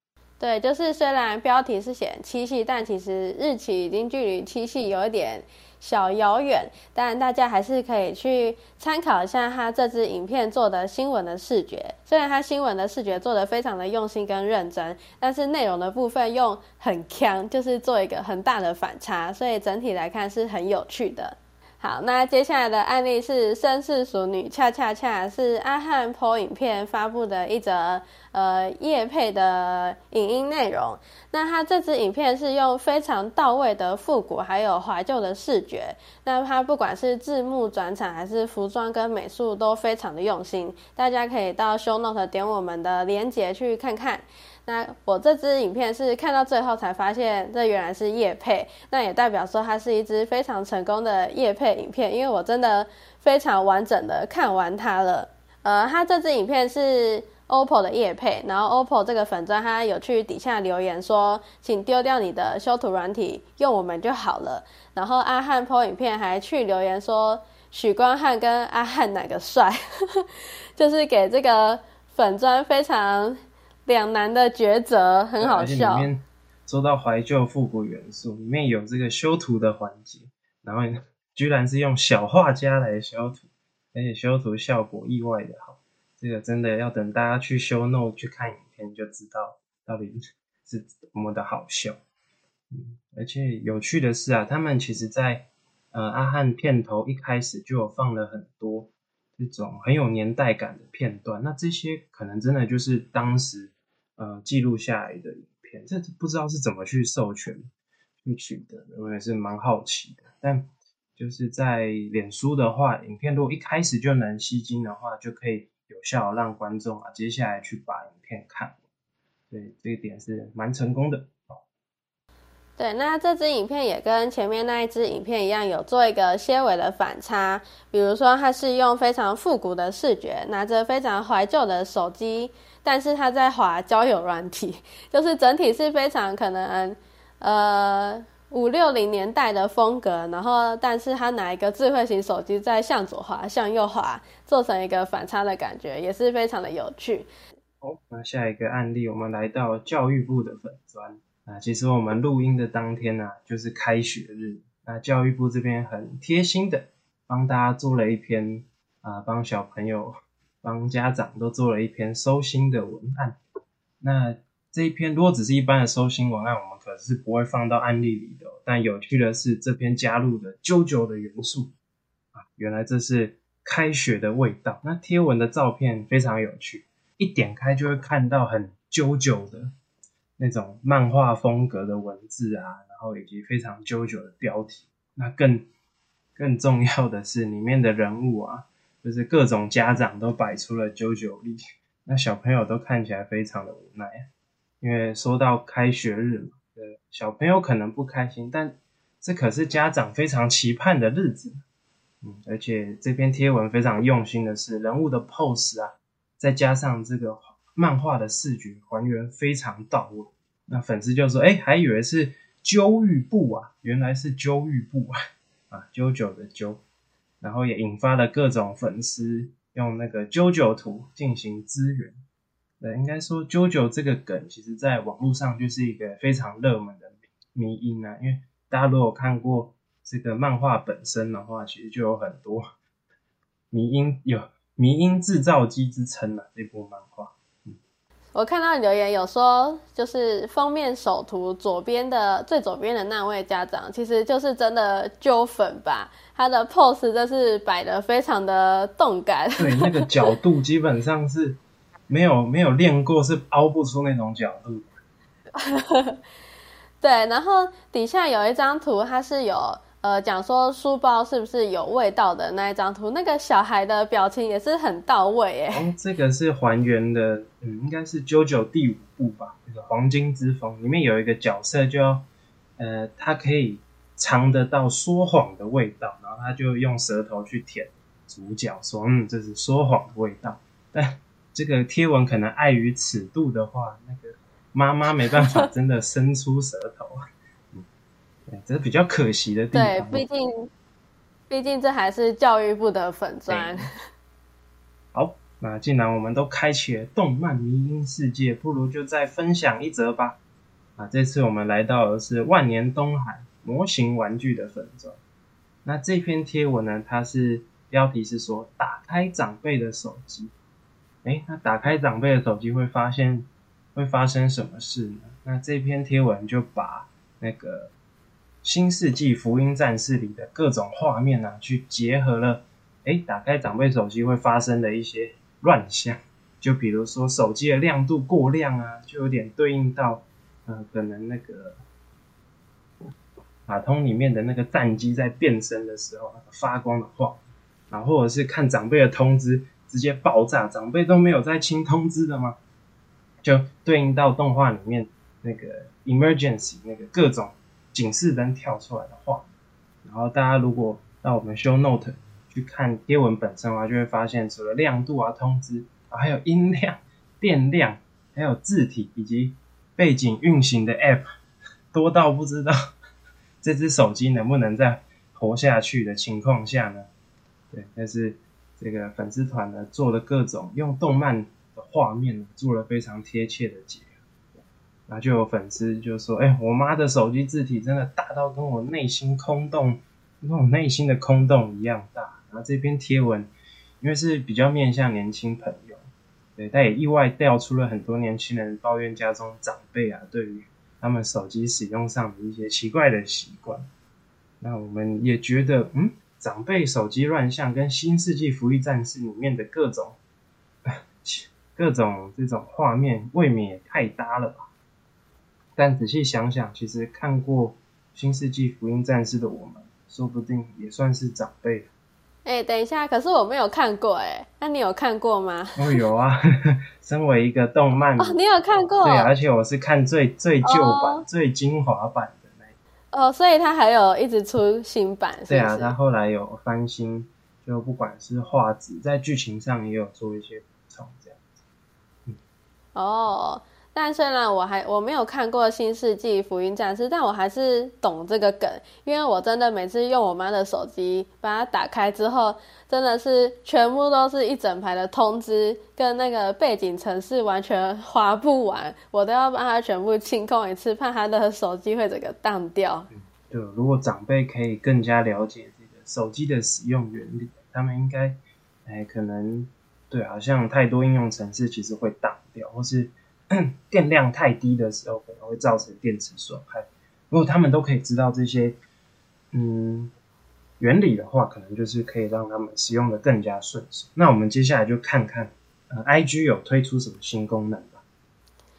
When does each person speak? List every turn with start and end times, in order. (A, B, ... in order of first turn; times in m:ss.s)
0:00.4-1:16.1 A
1:15.4-1:32.0 B
1:32.7-1:47.7 B
1:48.2-1:58.8 B
1:59.5-2:01.6 B
2:02.8-2:27.3 A
2:27.8-2:43.4 B
2:44.0-2:51.7 B
2:52.4-2:59.7 B
3:00.4-3:05.7 B
3:06.4-3:14.3 B
3:14.8-3:21.6 B
3:22.2-3:35.1 B
3:35.7-3:36.8 B
3:37.4-3:42.2 B
3:42.8-3:52.6 B
3:53.7-3:57.8 B
3:58.4-4:09.9 A
4:09.6-4:14.9 B
4:15.5-4:16.2 A
4:17.0-4:25.9 A
4:25.7-4:32.3 B
4:32.8-4:47.2 B
4:45.3-4:45.6 A
4:48.5-4:50.2 B
4:49.7-4:50.7 A
4:51.5-4:53.9 A
4:53.5-4:53.9 B
4:55.1-5:00.4 B
5:01.0-5:05.2 B
5:05.8-5:10.5 B
5:11.2-5:17.9 B
5:18.6-5:31.8 B
5:33.7-5:42.6 B
5:43.4-5:49.5 B
5:50.0-6:01.2 B
6:01.9-6:02.8 B
6:03.6-6:07.1 B
6:07.7-6:14.1 B
6:15.1-6:23.5 B
6:24.0-6:33.9 B
6:34.6-6:40.2 B
6:40.9-6:44.7 B
6:45.8-6:51.9 B
6:52.4-6:56.0 A
6:55.8-6:58.4 B
6:58.2-6:59.3 A
6:59.0-7:02.8 B
7:00.7-7:01.2 A
7:03.1-7:06.0 A
7:05.5-7:11.4 B
7:13.0-7:33.1 A
7:33.1-7:48.8 B
7:49.5-7:50.1 B
7:50.8-7:58.0 B